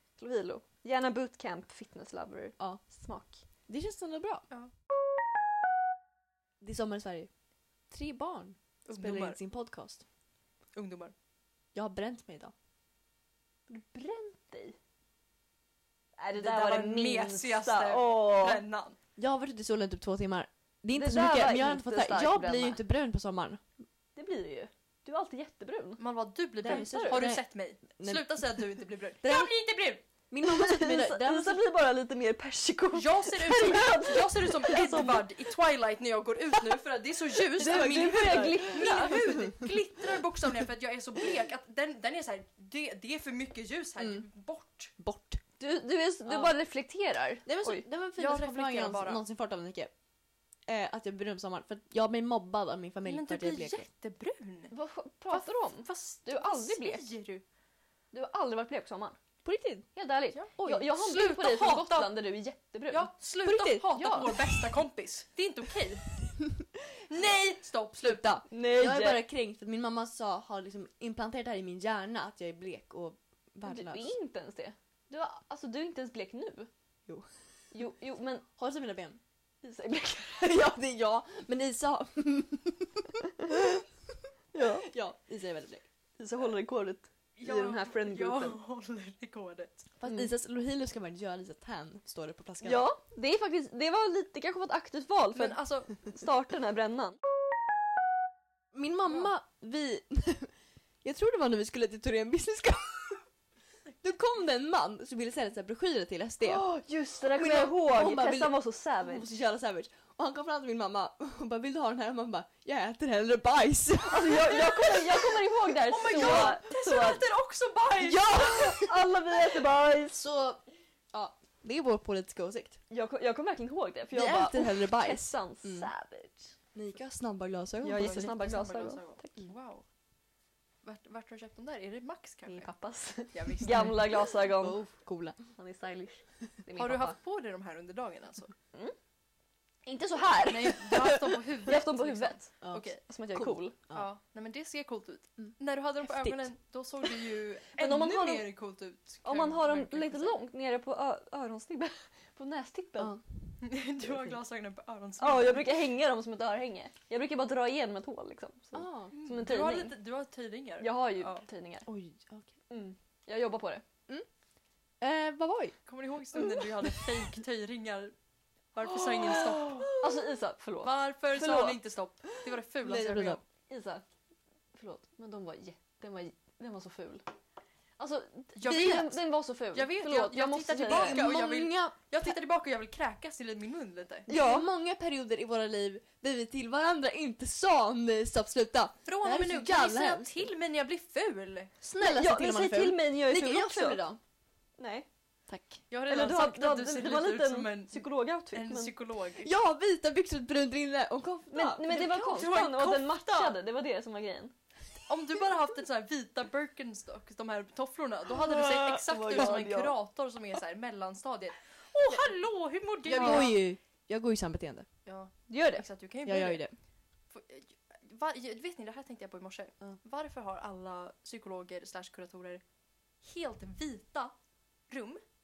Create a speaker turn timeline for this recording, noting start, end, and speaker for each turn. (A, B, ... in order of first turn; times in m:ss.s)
0:00.2-0:03.4 A
0:02.6-0:04.5 B
0:06.6-0:07.3 B
0:07.9-0:10.0 B
0:08.8-0:09.4 C
0:10.7-0:11.1 C
0:11.7-0:12.5 B
0:13.7-0:14.8 A
0:16.2-0:18.6 A
0:16.4-0:19.0 C
0:19.2-0:23.6 B
0:20.9-0:22.8 A
0:24.2-0:26.0 A
0:26.0-0:30.0 C
0:26.6-0:28.7 B
0:26.6-0:27.2 A
0:29.2-0:29.5 B
0:30.3-0:31.6 B
0:30.4-0:35.4 A
0:32.9-0:44.9 C
0:37.6-0:39.4 A
0:37.6-0:39.7 B
0:44.0-0:44.2 B
0:45.0-0:45.4 B
0:45.6-0:47.8 A
0:46.3-0:46.5 B
0:47.4-0:49.9 B
0:48.2-0:49.2 C
0:50.7-0:53.9 B
0:53.0-0:54.7 C
0:54.7-0:57.0 A
0:55.3-0:57.4 C
0:58.1-0:59.2 A
0:59.4-0:59.9 B
0:59.9-1:03.1 A
1:00.3-1:02.1 C
1:00.6-1:00.9 B
1:02.9-1:06.0 C
1:03.4-1:04.5 B
1:04.0-1:04.2 A
1:06.4-1:06.8 B
1:07.1-1:08.3 C
1:08.0-1:14.1 B
1:08.5-1:09.2 A
1:13.6-1:16.7 A
1:17.1-1:17.3 B
1:17.7-1:18.4 A
1:18.6-1:19.2 B
1:19.6-1:20.6 A
1:20.4-1:25.8 B
1:24.5-1:24.9 A
1:26.2-1:28.6 A
1:27.4-1:29.9 C
1:30.0-1:32.8 B
1:30.0-1:30.3 A
1:32.6-1:37.2 A
1:35.3-1:35.9 C
1:38.7-1:43.2 B
1:44.0-1:46.7 B
1:46.4-1:49.3 A
1:47.3-1:55.0 B
1:54.1-1:57.2 A
1:55.8-1:58.3 C
1:56.1-1:56.5 B
1:58.0-1:59.0 B
1:58.3-2:00.2 A
2:00.1-2:02.8 B
2:02.9-2:06.5 A
2:04.1-2:05.9 B
2:06.7-2:08.4 B
2:07.8-2:09.4 A
2:07.9-2:09.8 C
2:10.8-2:12.7 C
2:12.5-2:14.8 A
2:13.3-2:14.1 C
2:14.5-2:15.4 B
2:15.6-2:17.2 A
2:16.8-2:18.5 C
2:19.8-2:23.7 A
2:20.4-2:23.0 C
2:22.6-2:24.1 B
2:23.9-2:30.4 C
2:25.4-2:26.5 B
2:27.7-2:28.5 A
2:29.2-2:33.1 A
2:33.0-2:34.2 B
2:33.6-2:35.8 C
2:35.2-2:39.9 A
2:38.7-2:39.1 B
2:39.1-2:41.4 C
2:40.8-2:41.9 A
2:41.8-2:42.5 B
2:42.7-2:43.8 A
2:45.0-2:45.8 B
2:45.8-2:48.1 C
2:48.7-2:49.9 C
2:48.9-2:50.2 B
2:49.9-2:51.8 A
2:50.8-2:53.4 C
2:52.8-2:53.4 B
2:53.7-2:54.0 A
2:54.7-2:57.2 A
2:58.0-3:01.2 A
2:58.6-3:04.3 C
3:00.8-3:02.4 B
3:04.3-3:04.7 A
3:04.3-3:10.5 B
3:09.0-3:11.7 C
3:11.8-3:14.2 B
3:12.0-3:14.0 A
3:14.8-3:15.1 A
3:15.5-3:15.8 B
3:15.9-3:19.5 C
3:16.1-3:18.9 A
3:19.4-3:22.4 B
3:21.5-3:24.5 A
3:21.9-3:23.6 C
3:25.1-3:33.6 C
3:28.5-3:29.9 A
3:29.3-3:29.6 B
3:33.0-3:34.9 B
3:33.2-3:33.5 A
3:35.0-3:36.6 C
3:35.5-3:35.8 A
3:36.2-3:36.7 B
3:37.3-3:42.6 C
3:43.2-3:44.3 C
3:44.9-3:45.2 C